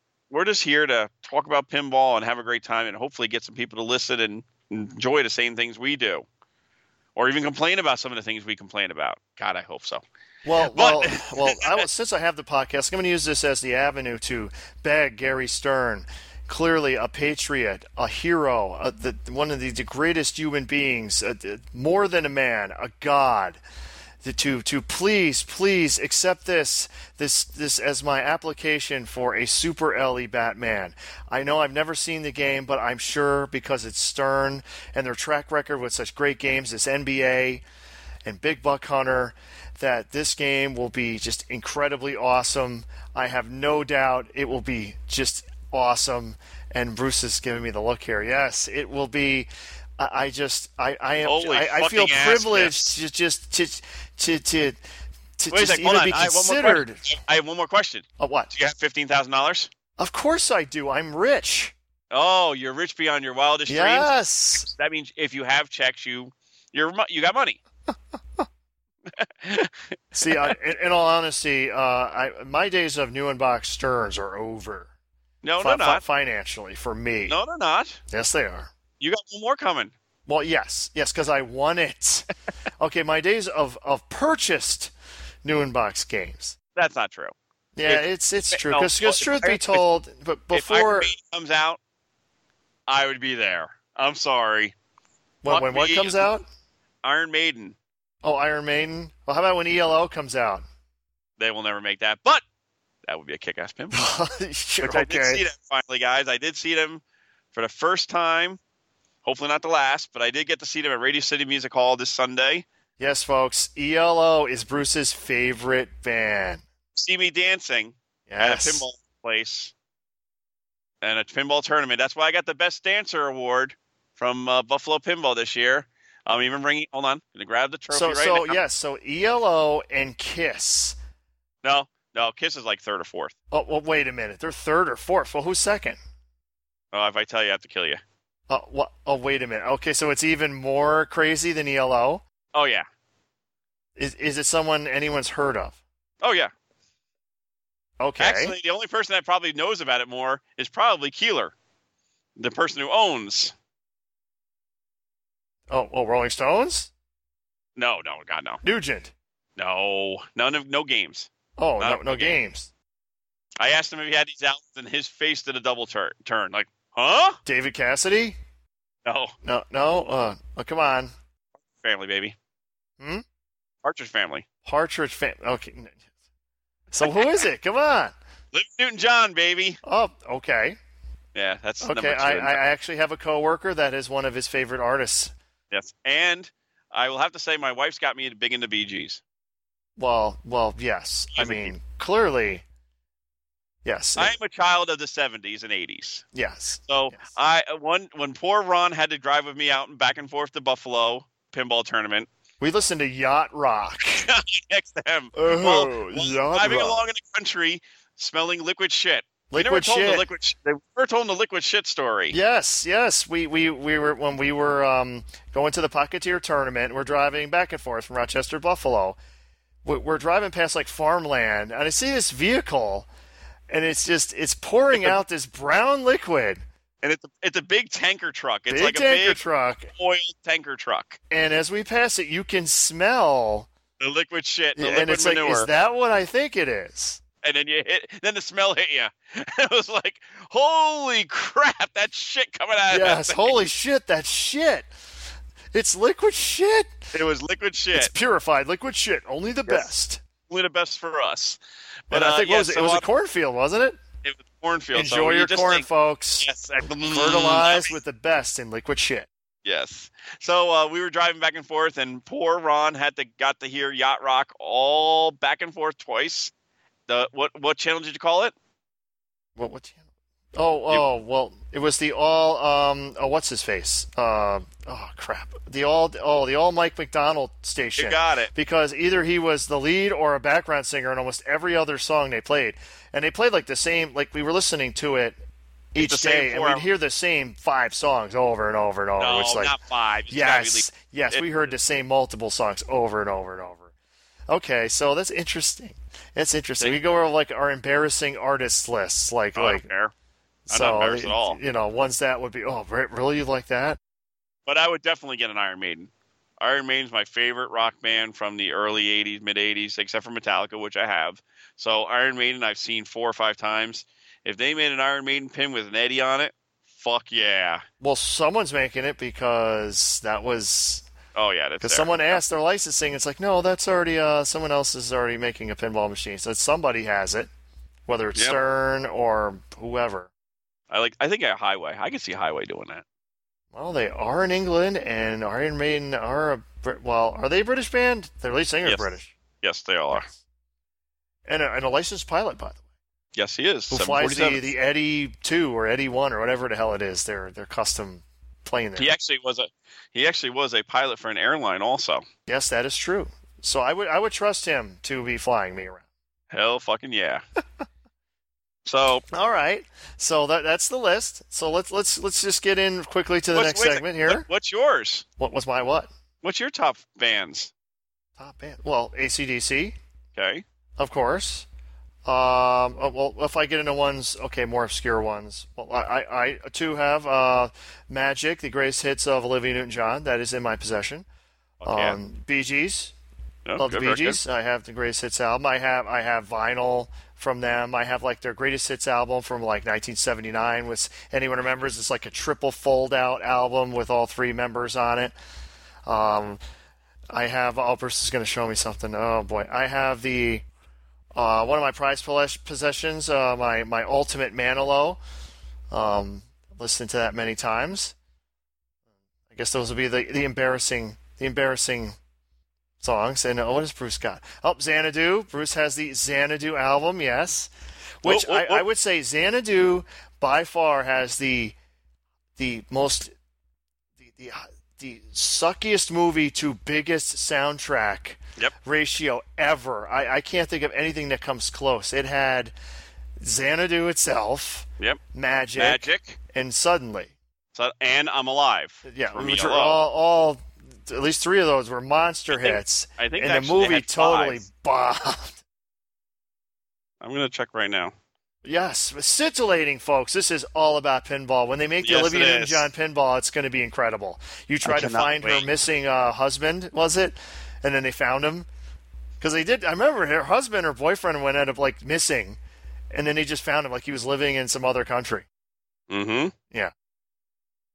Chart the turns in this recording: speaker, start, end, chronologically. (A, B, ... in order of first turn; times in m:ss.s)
0:00.3-0:06.3 A
0:07.2-0:10.0 A
0:10.4-0:23.6 B
0:10.6-0:11.9 A
0:24.2-0:37.6 B
0:38.2-0:54.8 B
0:51.2-0:53.0 A
0:55.4-0:57.1 B
0:55.5-0:59.7 A
0:58.2-0:58.5 B
1:00.0-1:01.7 B
1:02.1-1:07.6 A
1:03.7-1:04.7 B
1:09.2-1:10.5 A
1:10.1-1:14.9 B
1:15.4-1:16.0 A
1:15.6-1:17.4 B
1:17.3-1:18.0 A
1:18.1-1:18.7 B
1:19.0-1:19.9 A
1:20.3-1:22.3 B
1:22.8-1:24.9 B
1:25.4-1:26.6 B
1:26.8-1:29.8 A
1:27.8-1:31.1 B
1:30.5-1:31.8 A
1:32.9-1:34.7 A
1:35.4-1:36.5 B
1:35.5-1:36.3 A
1:37.0-1:37.8 A
1:38.2-1:40.6 B
1:41.4-1:42.4 A
1:43.1-1:44.1 A
1:43.9-1:45.4 B
1:44.8-1:47.0 A
1:47.5-1:48.6 A
1:49.2-1:52.6 A
1:53.0-1:56.6 B
1:57.0-1:59.7 A
1:58.3-1:58.8 B
2:01.0-2:08.6 A
2:07.9-2:11.0 B
2:11.6-2:13.3 A
2:13.5-2:16.0 B
2:16.9-2:18.0 A
2:18.5-2:22.2 B
2:22.5-2:22.8 A
2:24.0-2:25.8 B
2:26.2-2:26.5 A
2:28.0-2:28.6 B
2:28.2-2:31.5 A
2:32.4-2:33.5 A
2:35.7-2:36.9 B
2:37.8-2:38.6 A
2:38.6-2:39.1 B
2:39.6-2:41.3 A
2:41.6-2:42.7 B
2:41.8-2:42.4 A
2:43.6-2:47.4 A
2:47.4-2:48.4 B
2:49.0-2:49.3 A
2:49.4-2:51.1 B
2:51.8-2:52.4 A
2:53.8-2:54.5 A
2:54.6-2:56.0 B
2:56.9-2:58.2 B
2:58.5-2:59.8 A
2:59.8-3:00.8 B
3:01.4-3:02.6 A
3:01.8-3:05.3 B
3:05.7-3:09.2 A
3:10.0-3:12.6 B
3:11.4-3:11.7 A
3:13.8-3:14.4 B
3:14.2-3:16.2 A
3:16.3-3:17.2 B
3:16.9-3:22.3 A
3:22.6-3:24.3 B
3:24.2-3:32.4 A
3:25.4-3:27.0 B
3:29.5-3:30.3 B
3:32.3-3:39.2 B
3:39.8-3:43.1 B
3:43.7-3:46.6 B
3:47.0-3:49.4 A
3:48.7-3:49.9 B
3:50.0-3:51.2 A
3:51.3-3:53.7 B
3:54.0-3:55.7 A
3:54.8-3:57.2 B
3:57.4-4:03.6 A
4:02.9-4:04.9 B
4:05.7-4:07.1 B
4:07.1-4:08.1 A
4:07.9-4:10.2 B
4:10.5-4:13.1 A
4:12.1-4:14.0 B
4:14.2-4:15.9 A
4:14.9-4:16.5 B
4:16.4-4:18.0 A
4:17.0-4:19.3 B
4:19.6-4:26.5 A
4:27.1-4:28.5 A
4:29.6-4:30.0 B
4:30.6-4:45.4 B
4:38.0-4:38.5 A
4:45.9-4:49.7 B
4:46.0-4:46.9 A
4:49.2-4:51.5 A
4:50.3-4:53.9 B
4:54.5-4:59.8 B
4:59.6-5:00.1 A
5:00.7-5:04.0 B
5:00.7-5:01.6 A
5:04.7-5:06.1 A
5:06.6-5:17.8 A
5:18.0-5:21.1 B
5:21.4-5:22.4 A
5:21.8-5:27.5 B
5:28.1-5:30.3 B
5:30.9-5:33.0 A
5:33.7-5:39.3 B
5:39.6-5:40.3 A
5:40.1-5:40.4 B
5:41.5-5:42.8 B
5:43.4-5:44.6 A
5:43.9-5:49.1 B
5:49.0-5:52.2 A
5:52.5-5:56.0 B
5:56.5-5:57.4 A
5:58.8-5:59.2 A
5:59.3-6:04.5 B
6:03.5-6:05.2 A
6:05.4-6:06.1 B
6:06.4-6:07.7 A
6:08.4-6:10.0 B
6:10.4-6:10.6 A
6:11.0-6:11.7 B
6:12.2-6:21.3 B
6:21.8-6:22.2 A
6:21.9-6:23.2 B
6:23.7-6:24.4 A
6:23.8-6:35.4 B
6:36.1-6:36.6 B
6:37.3-6:40.7 B
6:41.3-6:45.2 B
6:45.9-6:48.2 B
6:49.5-6:52.2 B
6:53.0-6:57.7 B
6:58.2-7:01.8 B
6:58.2-6:58.8 A
7:02.6-7:03.3 B
7:04.2-7:12.7 B
7:13.4-7:17.3 B
7:15.8-7:16.4 A
7:17.7-7:20.0 A
7:19.0-7:25.6 B
7:22.5-7:24.6 A
7:27.2-7:28.1 A
7:28.6-7:38.7 B
7:32.0-7:32.9 A
7:34.8-7:35.7 A
7:39.4-7:42.6 B
7:43.1-7:45.5 B
7:46.1-7:46.5 A